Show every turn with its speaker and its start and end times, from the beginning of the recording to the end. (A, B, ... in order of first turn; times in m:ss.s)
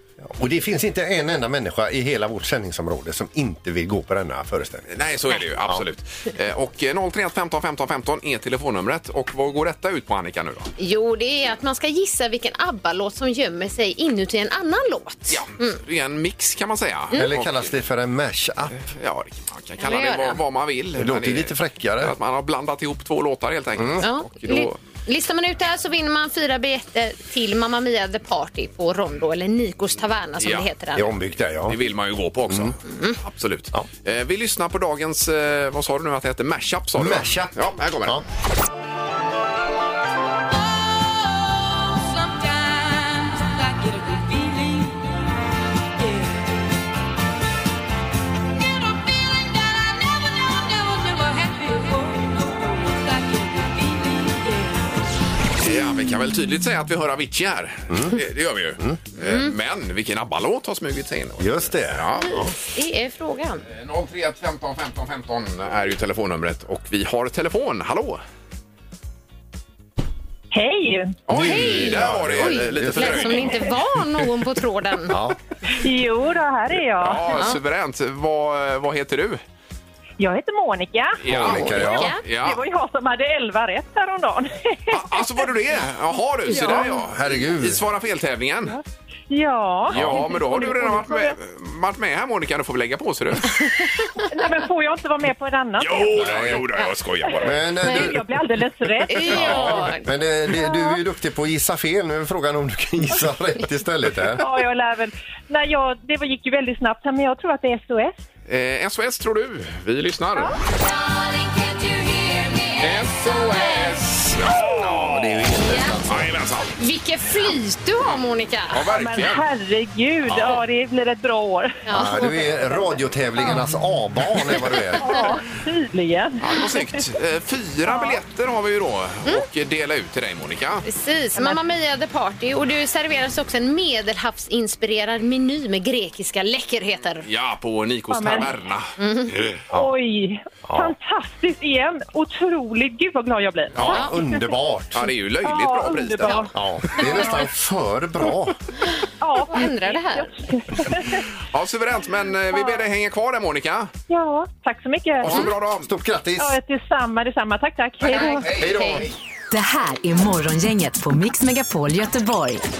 0:00.2-0:05.0 A
0:04.9-0:10.7 B
0:10.8-0:15.8 C
0:15.3-0:17.7 B
0:17.1-0:18.8 A
0:18.7-0:24.8 B
0:19.8-0:20.4 C
0:21.0-0:22.1 A
0:23.8-0:24.0 A
0:24.0-0:31.1 C
0:30.4-0:30.7 B
0:30.9-0:31.8 A
0:31.7-0:38.2 B
0:32.5-0:32.8 A
0:32.9-0:33.2 C
0:37.0-0:38.2 A
0:55.6-1:02.4 B
0:57.9-0:58.2 A
0:59.2-0:59.5 C
1:01.4-1:02.5 A
1:02.2-1:03.6 C
1:03.7-1:08.2 B
1:10.5-1:11.2 D
1:11.3-1:13.7 B
1:11.3-1:13.5 A
1:11.3-1:15.2 C
1:15.1-1:15.4 A
1:15.7-1:17.5 D
1:17.0-1:19.4 B
1:20.2-1:21.2 D
1:21.2-1:22.6 B
1:21.2-1:22.1 A
1:21.7-1:22.2 C
1:22.3-1:25.5 D
1:24.9-1:28.8 B
1:26.5-1:26.9 D
1:26.6-1:27.8 A
1:29.3-1:31.3 D
1:29.9-1:33.6 B
1:29.9-1:30.2 A
1:33.6-1:34.4 C
1:34.2-1:36.2 D
1:35.8-1:38.1 B
1:36.1-1:36.7 A
1:37.2-1:39.6 D
1:37.4-1:38.2 A
1:39.1-1:40.0 C
1:39.2-1:44.4 A
1:39.3-1:39.9 B
1:40.5-1:41.0 D
1:44.4-1:48.2 D
1:48.5-1:50.6 B
1:52.8-1:55.5 B
1:54.5-1:56.4 A
1:56.0-1:56.8 B
1:56.8-1:58.8 C
1:58.7-1:59.4 B
1:58.8-2:02.2 D
2:01.8-2:02.3 C
2:01.9-2:05.2 A
2:05.0-2:07.0 D
2:06.4-2:10.8 B
2:07.9-2:08.2 D
2:10.8-2:17.2 C
2:11.3-2:11.6 D
2:17.2-2:19.6 B
2:18.1-2:18.5 D
2:19.0-2:19.4 C
2:19.7-2:24.4 D
2:20.6-2:20.9 A
2:23.7-2:24.1 B
2:23.8-2:25.1 A
2:24.9-2:27.4 B
2:25.4-2:27.4 D
2:26.5-2:28.6 A
2:29.2-2:31.2 D
2:29.5-2:30.3 C
2:31.4-2:33.9 B
2:32.5-2:32.8 D
2:34.1-2:35.3 D
2:35.2-2:35.9 B
2:35.2-2:36.6 A
2:36.4-2:38.5 D
2:38.0-2:39.1 B
2:38.1-2:39.0 C
2:38.2-2:39.1 A
2:39.5-2:42.6 E